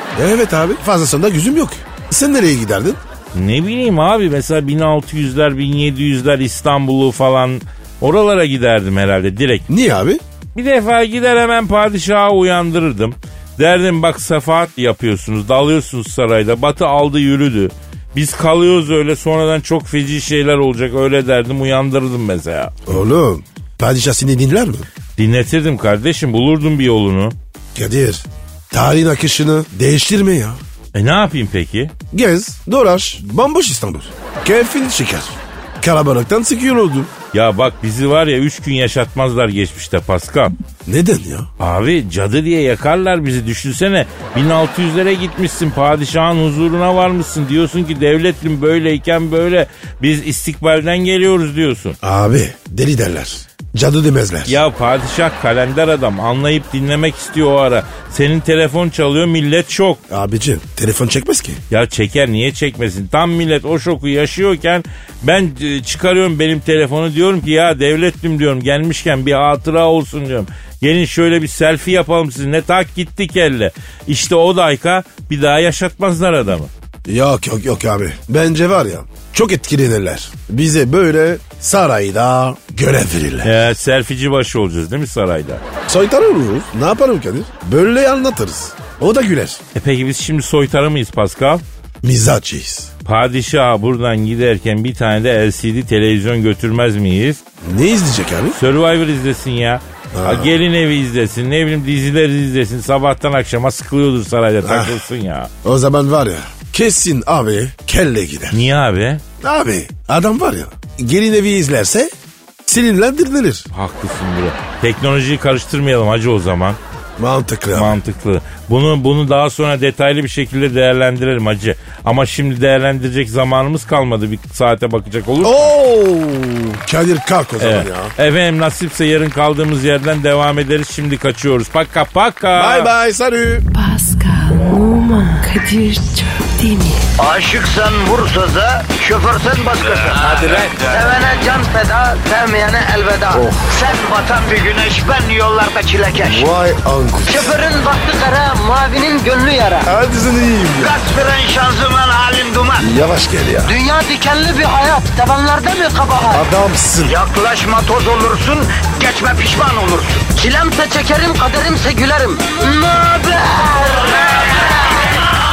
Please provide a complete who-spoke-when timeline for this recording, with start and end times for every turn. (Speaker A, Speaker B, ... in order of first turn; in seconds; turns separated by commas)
Speaker A: 0.1-3.0, Speaker B: 3.3-9.7, Speaker A: 9.7-10.2, Speaker B: 10.5-23.0, Speaker A: 22.9-24.9, Speaker B: 25.2-27.4, Speaker A: 27.7-30.6, Speaker B: 30.9-31.9, Speaker A: 32.1-37.1, Speaker B: 37.3-40.5, Speaker A: 40.9-41.5, Speaker B: 41.6-52.0, Speaker A: 52.0-54.6, Speaker B: 54.5-60.0, Speaker A: 60.1-61.6, Speaker B: 61.7-76.7, Speaker A: 77.0-83.6, Speaker B: 83.4-85.6, Speaker A: 85.9-89.6, Speaker B: 89.7-91.6, Speaker A: 92.0-92.9, Speaker B: 93.0-97.4, Speaker A: 97.6-98.6, Speaker B: 98.5-105.5, Speaker A: 100.1-100.5, Speaker A: 104.6-105.0, Speaker A: 105.6-108.6, Speaker B: 108.5-109.2, Speaker A: 109.4-112.1, Speaker A: 112.6-113.7, Speaker B: 113.7-116.8, Speaker A: 117.2-118.0, Speaker B: 117.7-125.7, Speaker A: 125.4-128.1, Speaker B: 127.6-132.9, Speaker A: 132.5-133.7, Speaker C: 133.7-137.1, Speaker D: 137.2-146.5, Speaker B: 140.2-140.7, Speaker A: 140.3-140.7, Speaker A: 143.3-143.8, Speaker A: 146.2-147.5, Speaker D: 147.2-149.9, Speaker A: 149.8-151.0, Speaker D: 150.8-152.9, Speaker A: 152.8-153.8, Speaker D: 153.6-156.4, Speaker A: 156.3-157.2, Speaker D: 157.0-165.1